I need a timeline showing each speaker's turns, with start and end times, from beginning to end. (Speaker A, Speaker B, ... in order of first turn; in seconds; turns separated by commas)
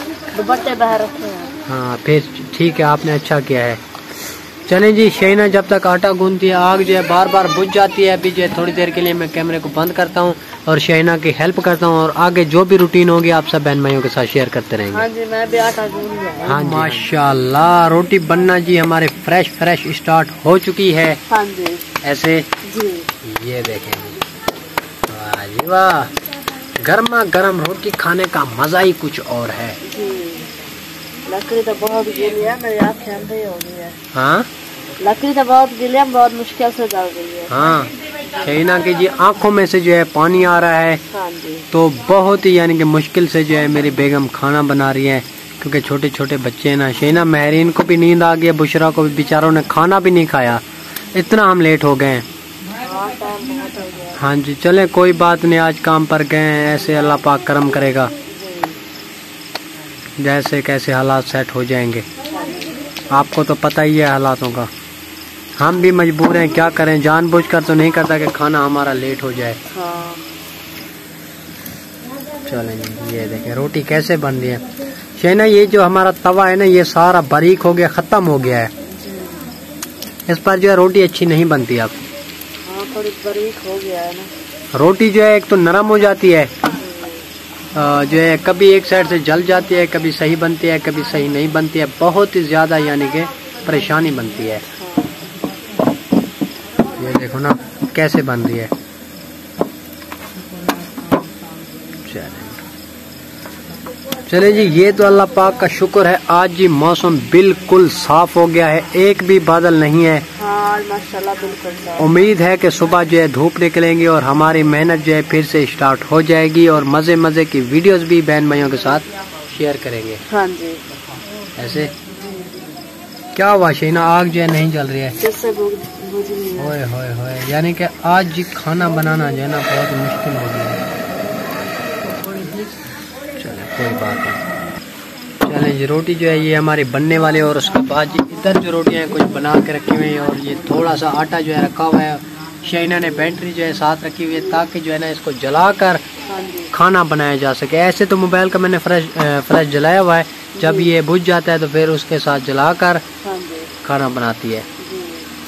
Speaker A: 0.3-1.5, Speaker B: 1.7-3.8, Speaker B: 4.7-15.0, Speaker A: 14.9-17.0, Speaker B: 16.4-21.2, Speaker A: 21.3-21.9, Speaker B: 22.0-22.5, Speaker A: 22.6-23.1, Speaker B: 23.2-24.2, Speaker B: 25.1-26.1, Speaker B: 26.8-29.8, Speaker A: 29.8-30.5, Speaker A: 31.2-34.0, Speaker B: 34.1-34.5, Speaker A: 35.0-37.5, Speaker B: 37.5-41.0, Speaker A: 41.1-41.7, Speaker B: 41.7-50.6, Speaker B: 51.1-52.2, Speaker A: 52.8-54.2, Speaker B: 54.2-58.1, Speaker A: 58.3-58.8, Speaker B: 60.2-62.1, Speaker A: 62.3-62.8, Speaker B: 63.1-64.7, Speaker B: 65.6-69.6, Speaker A: 69.7-70.2, Speaker B: 72.5-74.6, Speaker B: 75.2-78.7, Speaker A: 78.9-79.5, Speaker B: 80.3-82.0, Speaker A: 82.6-84.3, Speaker B: 84.7-86.5, Speaker A: 86.7-87.3, Speaker B: 87.7-94.6, Speaker A: 94.8-95.3, Speaker B: 97.0-98.7, Speaker B: 102.0-102.6, Speaker B: 104.3-110.2, Speaker A: 110.3-112.2, Speaker B: 112.0-120.2, Speaker A: 120.3-120.8, Speaker B: 121.6-121.9, Speaker A: 122.1-122.5, Speaker B: 123.3-125.1, Speaker A: 125.2-126.8, Speaker B: 126.6-130.8, Speaker B: 133.4-134.4, Speaker B: 135.4-146.0, Speaker A: 146.2-146.7, Speaker B: 146.7-153.0, Speaker A: 150.6-150.9, Speaker A: 153.2-153.7, Speaker B: 153.8-154.7, Speaker A: 154.8-155.3